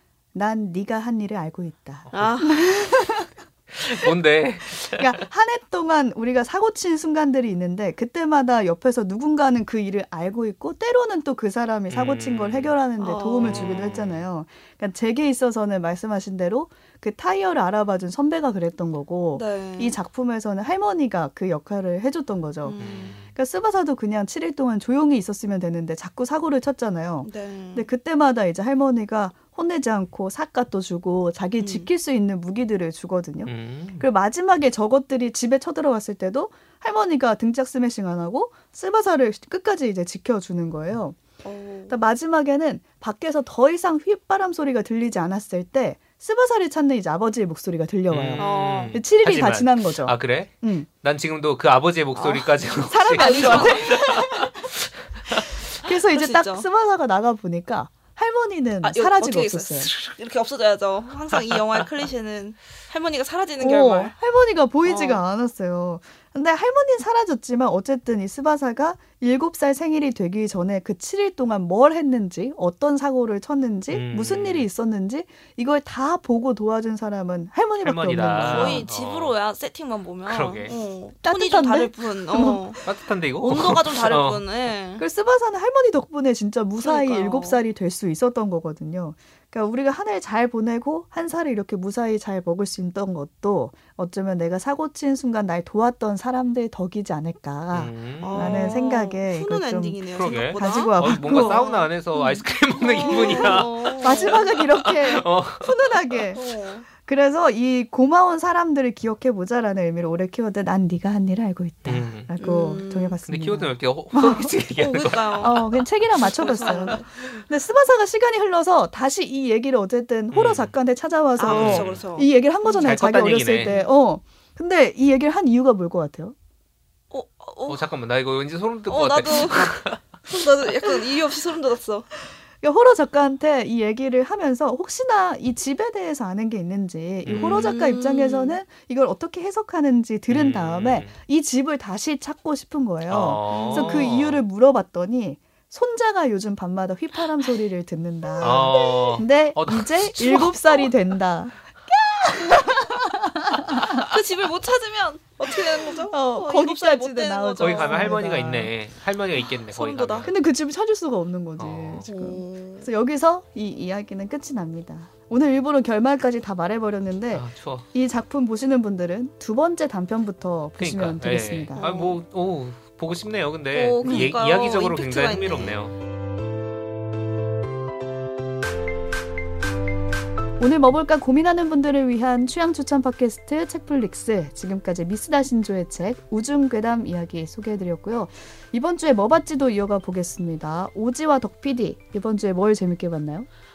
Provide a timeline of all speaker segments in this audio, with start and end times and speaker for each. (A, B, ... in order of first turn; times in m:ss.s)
0:00.3-0:03.3 A
0:02.1-0:02.4 B
0:02.1-0:02.9 C
0:03.7-0:05.2 B
0:04.6-0:41.2 A
0:11.9-0:12.7 B
0:13.0-0:13.9 C
0:13.4-0:14.2 B
0:19.3-0:20.0 C
0:22.6-0:23.2 C
0:22.8-0:23.3 B
0:27.2-0:27.9 C
0:31.6-0:31.9 C
0:33.4-0:34.0 B
0:41.4-0:42.0 C
0:41.9-0:50.9 A
0:48.1-0:55.5 B
0:48.4-0:49.0 C
0:52.1-0:54.3 C
0:52.9-0:54.7 A
0:55.7-0:59.9 A
0:55.8-0:56.7 C
0:58.8-1:04.1 C
1:01.3-1:01.8 B
1:03.6-1:18.9 A
1:04.8-1:05.2 C
1:13.9-1:14.7 B
1:17.8-1:19.3 B
1:18.4-1:22.8 C
1:20.3-1:20.7 B
1:21.2-1:22.9 A
1:22.8-1:24.4 B
1:23.4-1:25.0 C
1:25.0-1:41.7 A
1:26.8-1:27.6 C
1:37.7-1:38.8 B
1:38.2-1:44.4 C
1:40.1-1:46.2 B
1:43.0-1:54.6 A
1:46.3-1:46.9 C
1:51.8-1:52.3 B
1:52.4-1:53.2 C
1:53.2-1:57.2 B
1:54.8-1:55.6 C
1:55.4-2:06.3 A
1:56.2-1:57.1 C
2:00.3-2:00.7 B
2:01.4-2:03.0 C
2:01.4-2:02.0 B
2:02.8-2:03.7 B
2:03.6-2:03.9 C
2:07.1-2:07.8 C
2:07.7-2:10.0 B
2:08.9-2:12.1 C
2:12.6-2:34.1 A
2:17.2-2:17.7 B
2:17.3-2:18.6 C
2:20.3-2:21.1 B
2:23.1-2:24.4 B
2:23.5-2:24.1 C
2:28.3-2:29.2 C
2:28.4-2:30.5 B
2:33.9-2:38.2 C
2:35.5-2:38.7 A
2:37.6-2:40.3 B
2:39.7-2:40.3 C
2:40.2-2:51.8 A
2:41.6-2:42.1 B
2:42.0-2:42.9 C
2:47.3-2:47.9 B
2:50.8-2:55.9 B
2:51.7-2:52.2 C
2:53.7-2:55.8 C
2:54.0-2:54.3 A
3:00.6-3:13.5 A